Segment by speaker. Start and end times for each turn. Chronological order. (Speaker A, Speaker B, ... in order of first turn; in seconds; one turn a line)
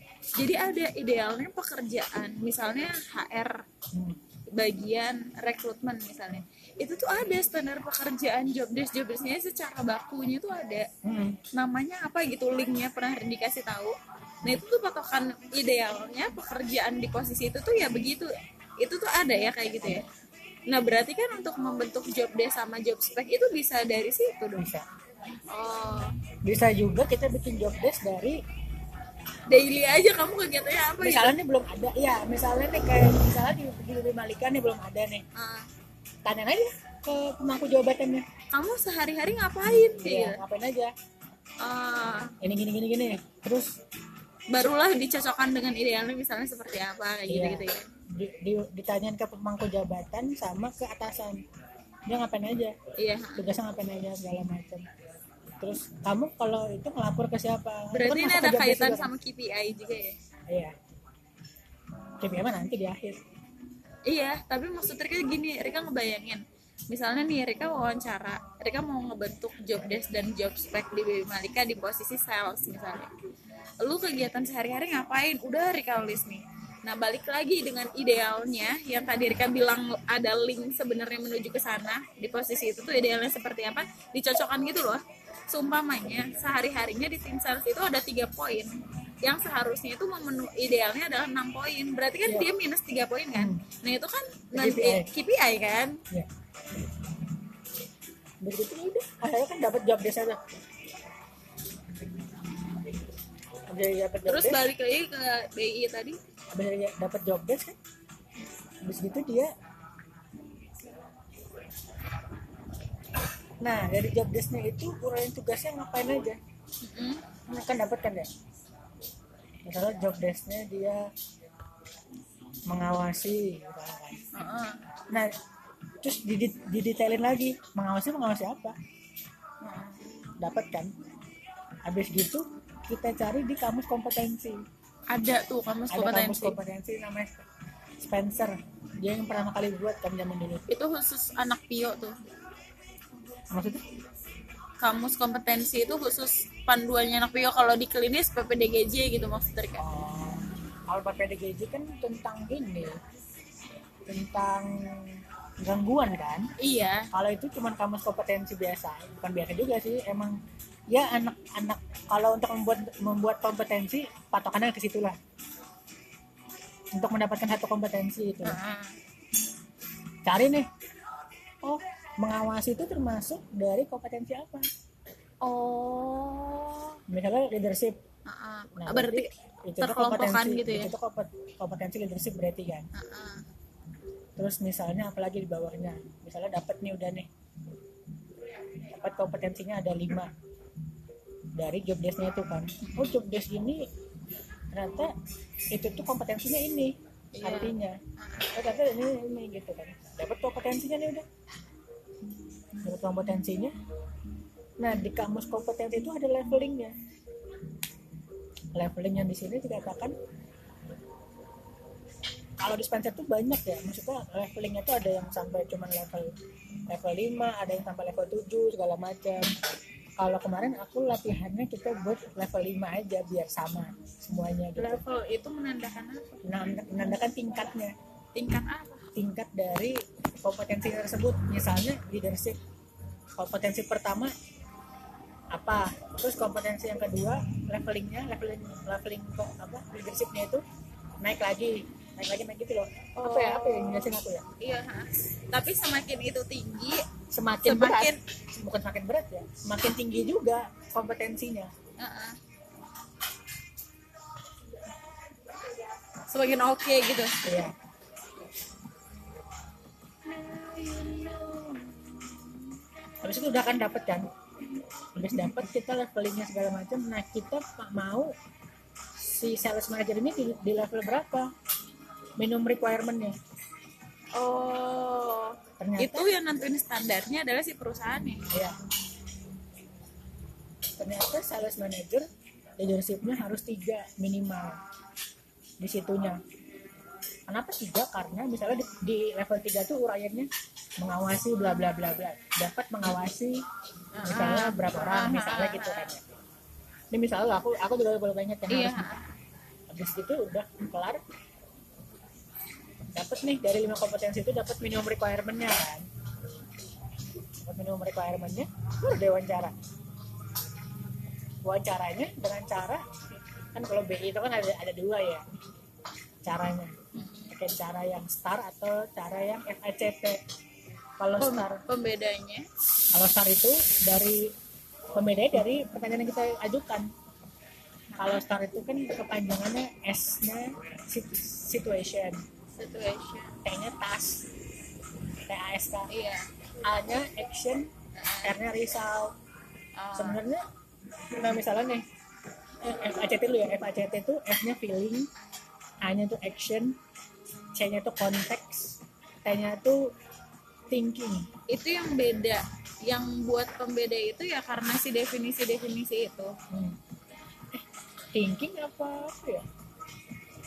Speaker A: 0.4-3.6
Speaker B: 3.9-4.2
Speaker A: 4.5-10.9
Speaker B: 11.0-11.4
Speaker A: 11.5-20.0
Speaker A: 20.7-24.7
Speaker B: 24.6-24.8
Speaker A: 25.5-26.1
Speaker B: 26.4-28.4
Speaker A: 29.5-31.3
Speaker B: 31.0-35.2
Speaker A: 35.4-35.7
Speaker B: 36.2-38.2
Speaker A: 38.5-40.4
Speaker B: 39.9-40.9
Speaker A: 41.6-42.3
Speaker B: 42.4-43.7
Speaker A: 44.5-47.8
Speaker B: 47.3-51.4
Speaker B: 52.1-52.7
Speaker A: 53.0-53.6
Speaker B: 53.4-54.8
Speaker B: 55.6-59.1
Speaker A: 57.9-60.1
Speaker B: 62.2-63.2
Speaker A: 64.1-73.1
Speaker A: 73.8-96.0
Speaker B: 93.3-93.6
Speaker B: 94.5-95.1
Speaker B: 98.4-100.4
Speaker B: 103.7-104.6
Speaker A: 104.2-106.2
Speaker B: 106.5-107.8
Speaker B: 108.8-109.5
Speaker B: 113.6-116.4
Speaker A: 116.8-117.2
Speaker B: 117.5-118.3
Speaker B: 119.7-121.0
Speaker B: 122.7-124.2
Speaker A: 124.3-124.8
Speaker B: 126.0-128.7
Speaker A: 129.6-130.0
Speaker B: 130.4-130.9
Speaker B: 131.9-134.6
Speaker A: 135.1-136.6
Speaker B: 135.9-137.4
Speaker B: 138.0-140.6
Speaker A: 140.7-142.2
Speaker B: 143.5-143.8
Speaker A: 144.8-149.8
Speaker B: 149.8-152.9
Speaker B: 154.1-156.4
Speaker A: 156.6-157.1
Speaker B: 157.1-160.3
Speaker B: 160.9-165.2
Speaker B: 166.9-168.6
Speaker A: 168.4-168.9
Speaker B: 170.2-170.7
Speaker B: 171.6-174.7
Speaker A: 175.4-177.0
Speaker B: 177.1-177.9
Speaker A: 178.3-179.3
Speaker B: 178.8-182.9
Speaker A: 179.8-180.9
Speaker A: 182.9-183.4
Speaker B: 184.4-187.3
Speaker B: 188.9-190.3
Speaker B: 191.6-193.8
Speaker B: 194.7-195.1
Speaker B: 195.7-198.0
Speaker A: 197.3-198.5
Speaker B: 198.5-201.2
Speaker B: 202.8-203.7
Speaker B: 204.8-206.9
Speaker B: 208.7-210.1
Speaker B: 212.6-216.3
Speaker B: 216.9-219.5
Speaker B: 220.2-225.0
Speaker A: 224.8-226.4
Speaker B: 226.4-227.9
Speaker A: 228.3-229.1
Speaker B: 229.2-232.6
Speaker B: 233.4-234.3
Speaker B: 235.5-240.6
Speaker B: 241.2-244.4
Speaker A: 243.2-244.1
Speaker A: 244.6-247.0
Speaker B: 247.3-251.7
Speaker A: 247.6-248.2
Speaker A: 252.0-252.4
Speaker A: 256.3-257.4
Speaker B: 257.4-257.7
Speaker A: 260.2-262.6
Speaker B: 263.2-264.2
Speaker B: 265.1-268.3
Speaker B: 269.2-271.5
Speaker B: 272.4-273.4
Speaker A: 274.3-278.4
Speaker B: 275.8-276.3
Speaker B: 278.5-278.8
Speaker B: 281.0-282.2
Speaker B: 282.8-284.8
Speaker B: 285.8-286.4
Speaker B: 287.5-290.5
Speaker B: 291.0-293.6
Speaker A: 294.2-296.1
Speaker B: 294.2-296.2
Speaker B: 297.1-299.2
Speaker A: 298.7-299.3
Speaker B: 299.9-301.2
Speaker B: 303.1-306.0
Speaker B: 307.6-309.7
Speaker B: 311.6-313.0
Speaker B: 313.7-315.4
Speaker B: 316.4-316.9
Speaker A: 317.1-317.5
Speaker B: 317.5-320.4
Speaker B: 321.2-321.8
Speaker A: 321.4-322.6
Speaker B: 323.1-324.4
Speaker B: 325.1-327.1
Speaker A: 328.1-328.4
Speaker B: 328.2-332.4
Speaker A: 332.8-333.5
Speaker B: 333.6-334.4
Speaker B: 335.5-336.1
Speaker A: 336.1-336.5
Speaker B: 336.9-337.9
Speaker A: 338.1-338.5
Speaker B: 338.4-339.3
Speaker A: 340.0-340.4
Speaker B: 340.1-340.6
Speaker B: 341.3-342.0
Speaker B: 342.8-345.3
Speaker B: 346.0-347.0
Speaker B: 347.8-350.0
Speaker B: 350.9-351.4
Speaker A: 351.7-356.5
Speaker B: 356.7-357.0
Speaker B: 358.3-359.6